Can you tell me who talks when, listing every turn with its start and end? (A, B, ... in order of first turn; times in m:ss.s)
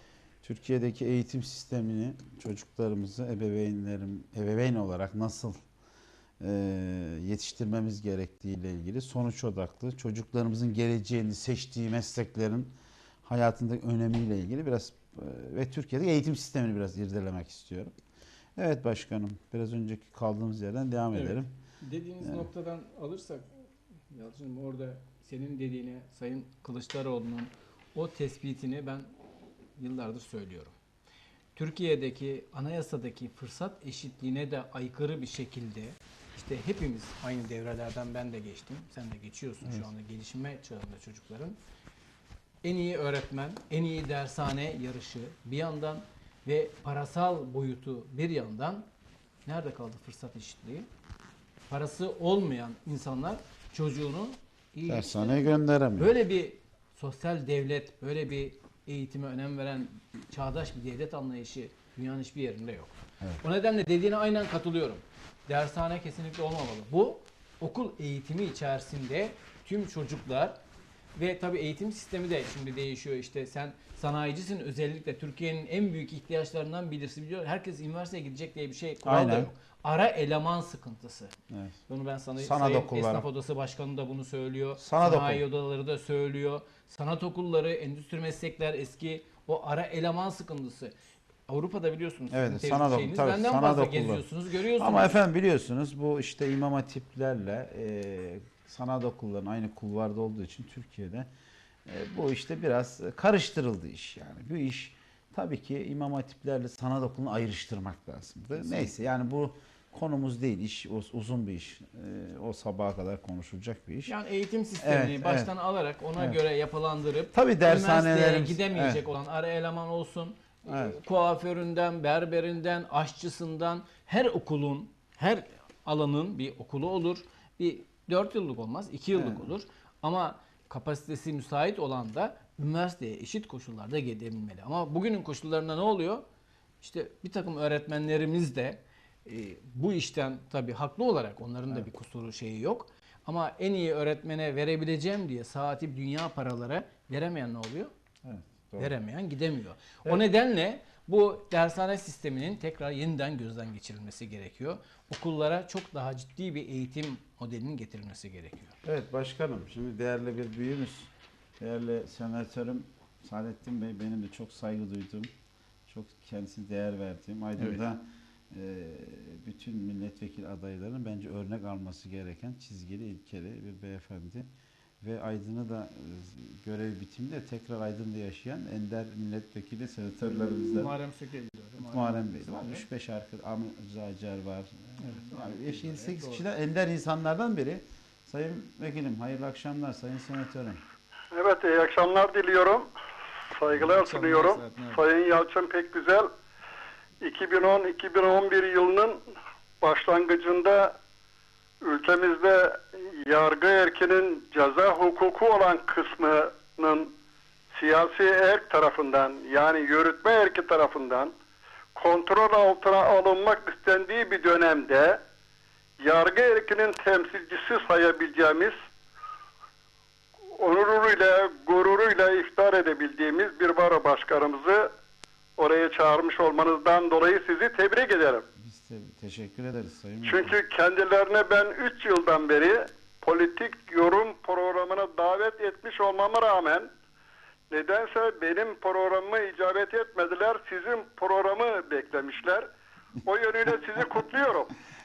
0:00.4-0:05.6 A
0:06.4-0:12.7 A
0:13.2-0:17.9 A
0:18.6-0:21.5 A
0:21.1-0:29.1 B
0:22.2-0:22.5 A
0:29.8-0:30.7 B
0:31.6-0:41.6 B
0:42.6-0:48.9 B
0:49.4-0:50.9 B
0:51.7-1:10.6 B
0:54.9-0:56.1 A
1:11.2-1:21.3 B
1:19.0-1:19.5 A
1:21.5-1:21.8 A
1:21.9-1:30.9 B
1:22.4-1:23.3 A
1:24.8-1:25.4 A
1:31.5-1:35.2 B
1:32.3-1:41.3 A
1:41.9-1:54.2 A
1:48.6-1:48.9 B
1:54.1-2:16.2 B
1:54.8-1:55.5 A
1:57.3-1:59.0 A
2:00.7-2:01.0 A
2:09.1-2:09.5 A
2:16.8-2:27.9 B
2:28.2-2:29.0 A
2:28.8-2:38.8 B
2:38.8-2:45.3 A
2:45.9-2:54.5 A
2:55.0-3:00.9 A
3:00.7-3:02.8 B
3:01.8-3:10.8 A
3:05.0-3:06.4 B
3:11.3-3:12.9 C
3:13.5-3:16.3 C
3:13.7-3:15.0 B
3:17.2-3:19.2 C
3:19.8-3:20.9 C
3:21.8-3:27.1 C
3:27.7-3:31.3 C
3:32.0-3:35.2 C
3:36.0-3:38.8 C
3:40.6-3:44.9 C
3:45.6-3:48.4 C
3:48.6-3:50.6 A
3:50.2-3:56.9 C
3:57.7-4:02.7 C
4:03.2-4:04.7 C